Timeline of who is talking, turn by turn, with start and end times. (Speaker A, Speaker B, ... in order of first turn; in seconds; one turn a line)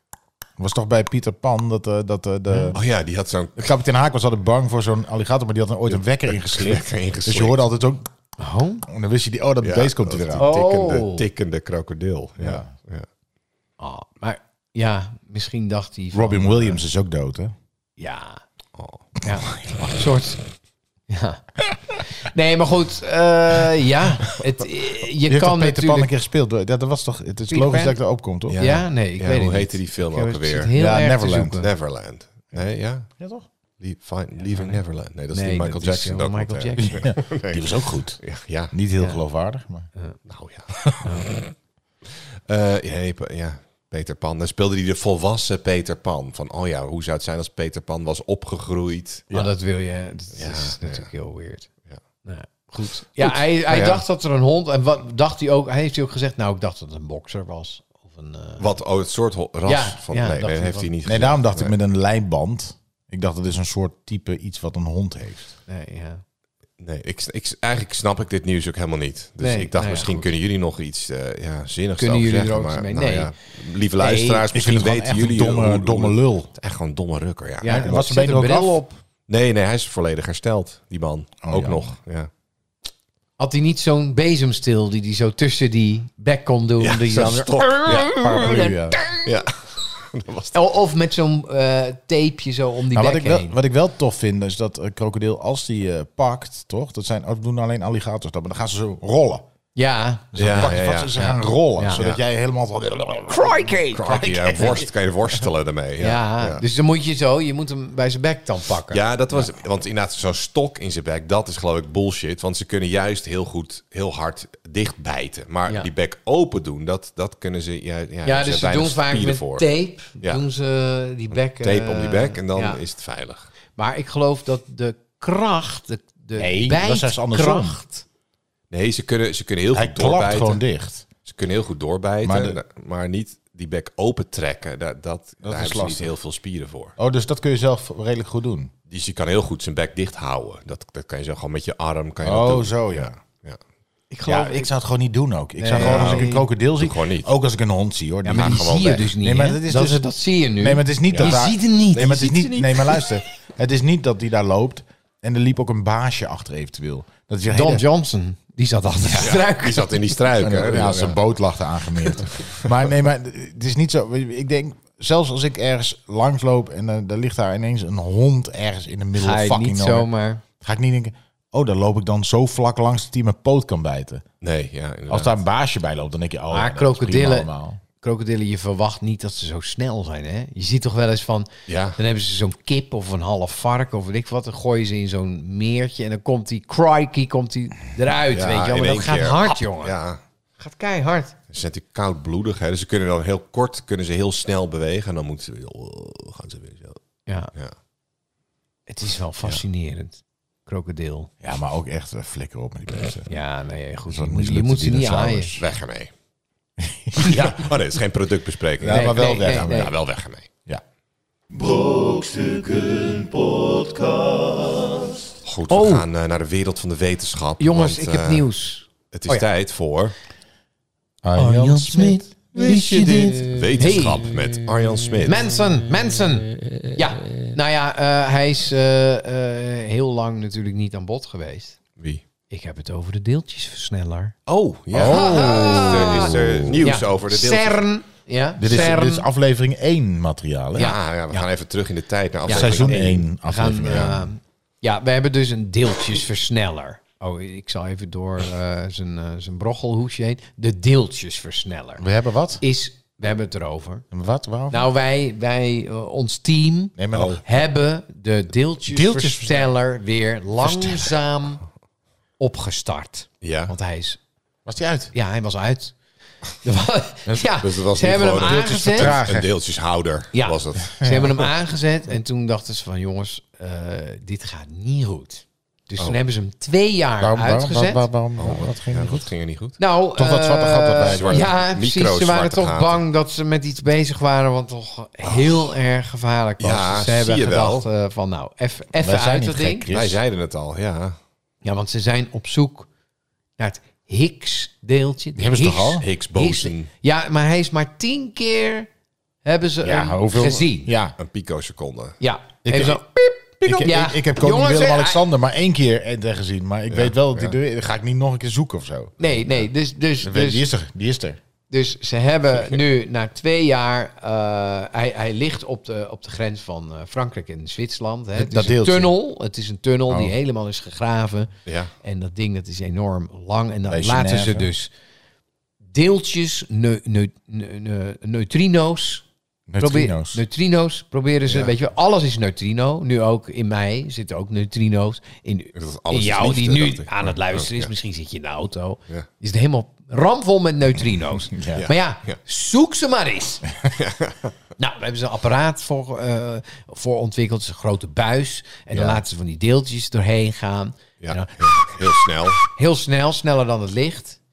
Speaker A: 0.6-2.8
Speaker B: 2.7-3.7
Speaker A: 3.6-8.1
Speaker B: 6.3-7.6
Speaker C: 8.4-8.8
Speaker A: 8.9-10.5
Speaker B: 9.6-13.1
Speaker C: 10.4-11.3
Speaker A: 12.4-12.7
Speaker C: 13.8-16.8
Speaker A: 16.1-17.5
Speaker C: 18.0-18.4
Speaker B: 18.8-19.8
Speaker C: 19.2-20.4
Speaker C: 21.1-26.1
Speaker A: 25.3-28.6
Speaker C: 27.5-28.0
Speaker B: 28.5-30.7
Speaker C: 28.6-31.7
Speaker A: 30.8-31.6
Speaker B: 31.6-33.1
Speaker A: 33.2-33.5
Speaker B: 33.8-38.7
Speaker C: 34.5-34.8
Speaker C: 35.3-37.0
Speaker A: 36.8-39.9
Speaker B: 40.3-41.5
Speaker C: 41.0-41.3
Speaker B: 42.1-49.3
Speaker C: 49.3-51.7
Speaker B: 50.4-51.1
Speaker C: 52.2-58.7
Speaker B: 53.1-54.0
Speaker B: 58.6-61.7
Speaker C: 59.7-60.9
Speaker A: 61.0-65.5
Speaker C: 65.7-66.2
Speaker B: 66.8-78.0
Speaker C: 69.4-70.3
Speaker C: 72.0-73.3
Speaker C: 74.0-74.5
Speaker A: 74.5-76.5
Speaker C: 77.6-79.0
Speaker A: 77.7-78.8
Speaker B: 79.3-82.3
Speaker A: 81.4-81.9
Speaker C: 83.4-89.3
Speaker B: 86.8-88.1
Speaker A: 87.9-89.0
Speaker B: 89.2-90.6
Speaker C: 90.5-93.5
Speaker A: 92.9-99.5
Speaker C: 99.8-102.0
Speaker A: 100.3-104.9
Speaker B: 100.4-101.2
Speaker B: 102.0-102.2
Speaker C: 103.3-104.8
Speaker B: 103.9-106.7
Speaker C: 106.0-109.5
Speaker B: 108.9-119.7
Speaker C: 118.2-122.8
Speaker B: 121.3-123.5
Speaker C: 123.8-128.1
Speaker A: 126.4-127.8
Speaker B: 128.7-130.6
Speaker A: 129.7-131.1
Speaker B: 131.2-136.9
Speaker A: 132.2-132.6
Speaker A: 135.4-136.1
Speaker A: 137.0-138.7
Speaker B: 138.9-143.6
Speaker A: 142.2-143.1
Speaker C: 144.1-144.7
Speaker A: 144.3-150.1
Speaker C: 145.6-146.5
Speaker B: 145.7-147.3
Speaker C: 148.2-152.9
Speaker B: 148.3-149.1
Speaker A: 150.6-157.8
Speaker B: 151.1-151.4
Speaker B: 151.9-152.9
Speaker C: 157.5-160.0
Speaker B: 159.1-161.2
Speaker A: 160.4-170.1
Speaker B: 162.2-162.7
Speaker C: 169.2-170.4
Speaker A: 170.6-174.2
Speaker B: 174.4-175.4
Speaker A: 175.1-177.8
Speaker C: 176.5-177.5
Speaker C: 178.0-190.0
Speaker B: 181.7-182.0
Speaker B: 188.3-190.2
Speaker C: 190.6-191.4
Speaker B: 191.5-197.0
Speaker C: 198.9-201.3
Speaker A: 201.4-203.3
Speaker C: 203.3-205.6
Speaker A: 204.1-205.6
Speaker B: 205.6-206.1
Speaker A: 206.8-207.5
Speaker B: 207.2-210.5
Speaker C: 207.2-207.6
Speaker A: 208.8-209.9
Speaker C: 208.9-209.9
Speaker A: 211.5-212.4
Speaker B: 215.4-218.5
Speaker C: 215.7-216.1
Speaker C: 217.6-219.5
Speaker B: 219.1-220.1
Speaker A: 221.2-222.2
Speaker C: 221.3-224.3
Speaker B: 222.6-225.5
Speaker C: 225.2-231.8
Speaker C: 232.5-234.3
Speaker B: 234.5-237.9
Speaker A: 234.9-236.8
Speaker C: 235.0-239.3
Speaker A: 238.6-240.9
Speaker C: 240.8-241.5
Speaker B: 240.8-243.2
Speaker C: 242.5-252.0
Speaker A: 242.5-244.3
Speaker A: 252.0-252.6
Speaker C: 252.6-254.1
Speaker A: 254.1-254.8
Speaker C: 254.7-261.6
Speaker A: 257.0-257.4
Speaker B: 257.1-257.4
Speaker A: 258.9-259.7
Speaker A: 260.6-261.1
Speaker C: 262.4-264.2
Speaker B: 263.4-263.7
Speaker A: 264.7-265.1
Speaker C: 265.1-265.9
Speaker C: 266.6-269.2
Speaker B: 267.6-271.2
Speaker A: 268.4-269.5
Speaker C: 270.3-278.1
Speaker A: 271.0-271.3
Speaker A: 277.2-279.3
Speaker B: 278.4-279.8
Speaker C: 279.8-289.9
Speaker A: 280.2-281.5
Speaker B: 281.0-283.0
Speaker B: 285.2-285.7
Speaker B: 286.6-287.9
Speaker A: 289.0-290.2
Speaker B: 289.9-291.2
Speaker C: 291.6-292.9
Speaker C: 293.6-298.9
Speaker A: 295.4-296.1
Speaker B: 296.0-296.9
Speaker C: 299.4-300.9
Speaker A: 299.8-301.2
Speaker B: 301.2-302.2
Speaker C: 302.2-305.2
Speaker A: 302.6-303.0
Speaker A: 303.6-309.1
Speaker B: 306.9-307.5
Speaker C: 309.2-310.6
Speaker A: 310.2-311.4
Speaker C: 311.7-321.5
Speaker A: 318.4-319.1
Speaker A: 320.1-320.3
Speaker B: 321.7-321.9
Speaker C: 322.0-324.9
Speaker A: 323.9-324.7
Speaker C: 325.9-329.2
Speaker A: 329.7-330.4
Speaker C: 329.8-343.6
Speaker B: 335.8-337.9
Speaker A: 341.5-341.9
Speaker B: 341.7-342.4
Speaker B: 344.0-344.5
Speaker C: 344.8-352.1
Speaker A: 348.9-349.2
Speaker B: 351.2-352.6
Speaker C: 352.6-354.4